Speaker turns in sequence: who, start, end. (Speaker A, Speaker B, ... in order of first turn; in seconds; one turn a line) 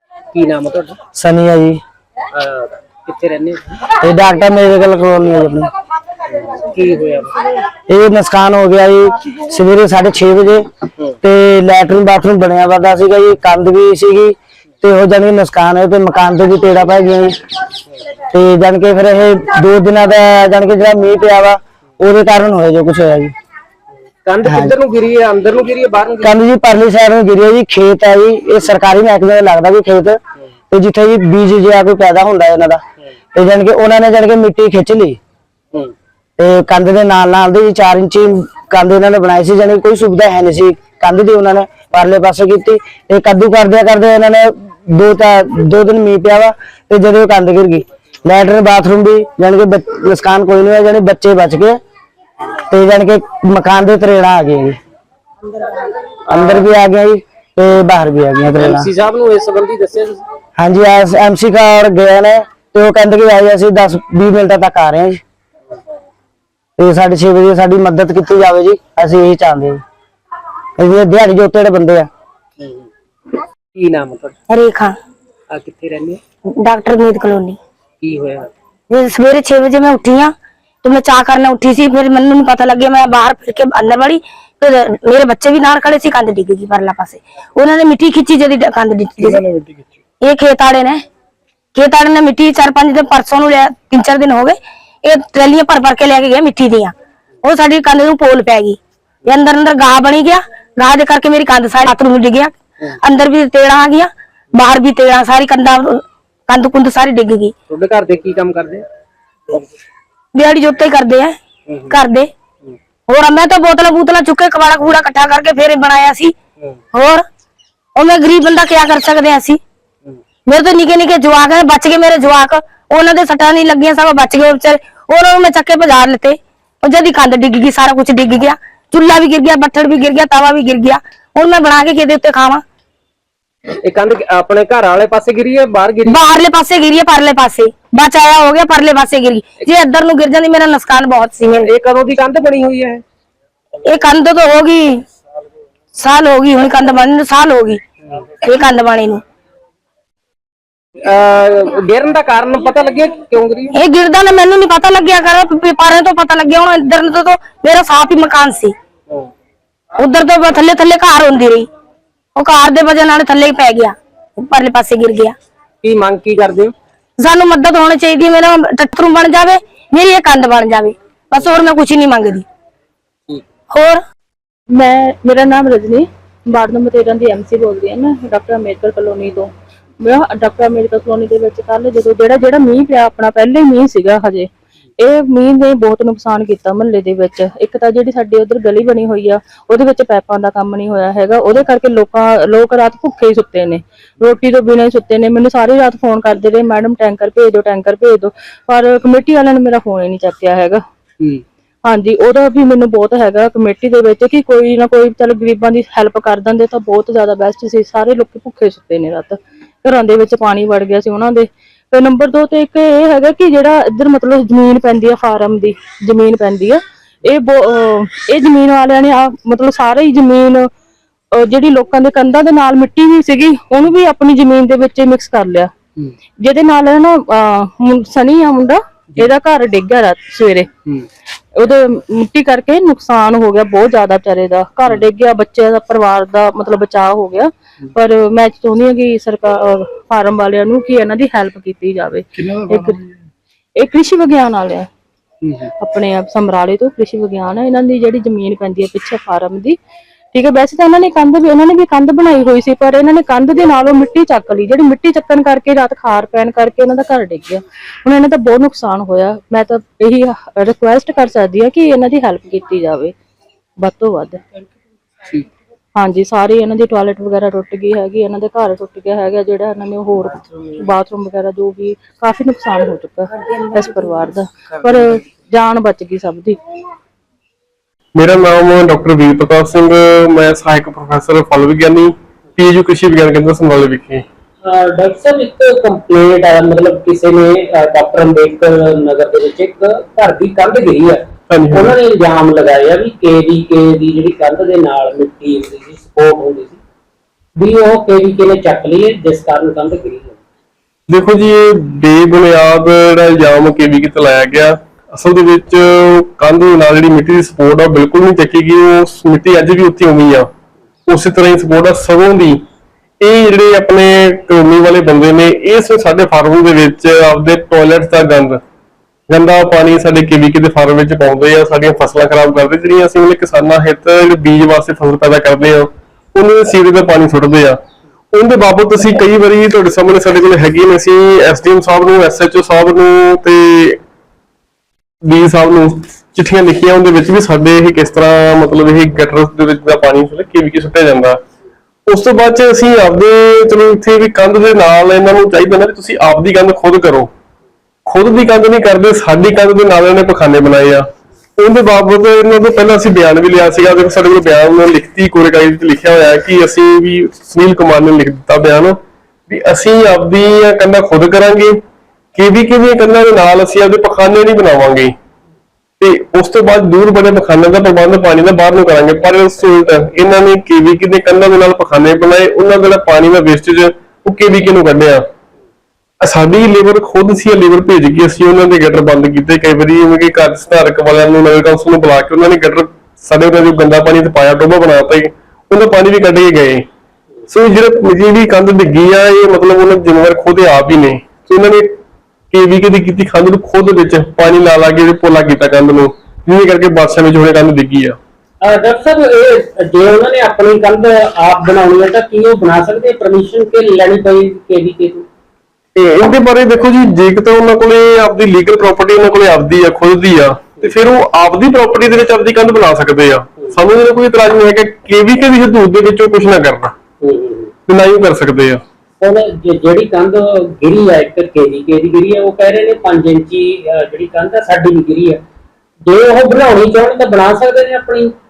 Speaker A: 0.3-1.0
Speaker B: 1.1-1.8
Speaker A: 2.4-3.8
Speaker B: 4.0-5.7
Speaker A: 6.4-7.4
Speaker B: 7.9-10.7
Speaker B: 11.2-17.3
Speaker B: 18.3-23.3
Speaker A: 24.3-26.3
Speaker B: 24.4-24.8
Speaker B: 26.2-30.2
Speaker B: 30.7-32.8
Speaker B: 33.3-35.2
Speaker B: 36.4-51.8
Speaker B: 52.7-54.8
Speaker B: 56.3-58.9
Speaker A: 56.3-56.6
Speaker A: 58.6-60.2
Speaker B: 60.6-65.2
Speaker B: 66.8-69.8
Speaker B: 70.8-72.1
Speaker A: 72.6-72.9
Speaker A: 73.8-74.3
Speaker C: 74.5-75.0
Speaker A: 75.5-76.2
Speaker C: 76.5-77.6
Speaker A: 78.0-78.5
Speaker C: 78.9-80.3
Speaker C: 80.8-89.4
Speaker D: 89.2-89.8
Speaker C: 90.2-91.0
Speaker C: 91.8-107.5
Speaker A: 107.7-108.8
Speaker C: 110.3-112.3
Speaker C: 113.1-116.3
Speaker C: 116.9-117.2
Speaker C: 118.0-119.6
Speaker C: 120.5-132.6
Speaker A: 133.8-136.2
Speaker C: 136.1-141.7
Speaker A: 141.7-143.0
Speaker C: 143.9-145.0
Speaker C: 146.0-147.8
Speaker C: 148.4-149.2
Speaker A: 151.1-153.7
Speaker C: 153.7-158.7
Speaker C: 160.0-161.7
Speaker C: 162.4-165.3
Speaker A: 165.8-166.7
Speaker C: 167.2-172.4
Speaker C: 173.7-174.0
Speaker E: 174.7-200.8
Speaker E: 201.8-220.7
Speaker E: 221.3-225.7
Speaker E: 226.4-230.7
Speaker E: 231.5-243.0
Speaker E: 243.8-244.9
Speaker E: 245.8-249.8
Speaker E: 250.3-263.1
Speaker E: 263.8-264.4
Speaker E: 265.9-276.6
Speaker D: 278.2-284.2
Speaker A: 284.6-296.8
Speaker D: 291.5-292.0
Speaker A: 297.6-300.4
Speaker D: 301.1-310.5
Speaker D: 311.1-312.6
Speaker D: 313.2-318.6
Speaker D: 319.3-327.8
Speaker D: 328.3-334.0
Speaker D: 335.2-341.4
Speaker D: 342.1-347.3
Speaker D: 348.1-361.8
Speaker D: 362.4-365.1
Speaker D: 366.0-375.2
Speaker D: 376.2-386.9
Speaker D: 387.5-392.0
Speaker D: 392.5-398.2
Speaker A: 398.6-405.3
Speaker D: 405.9-416.9
Speaker A: 417.2-417.7
Speaker D: 417.9-418.8
Speaker A: 419.2-425.4
Speaker A: 426.1-428.3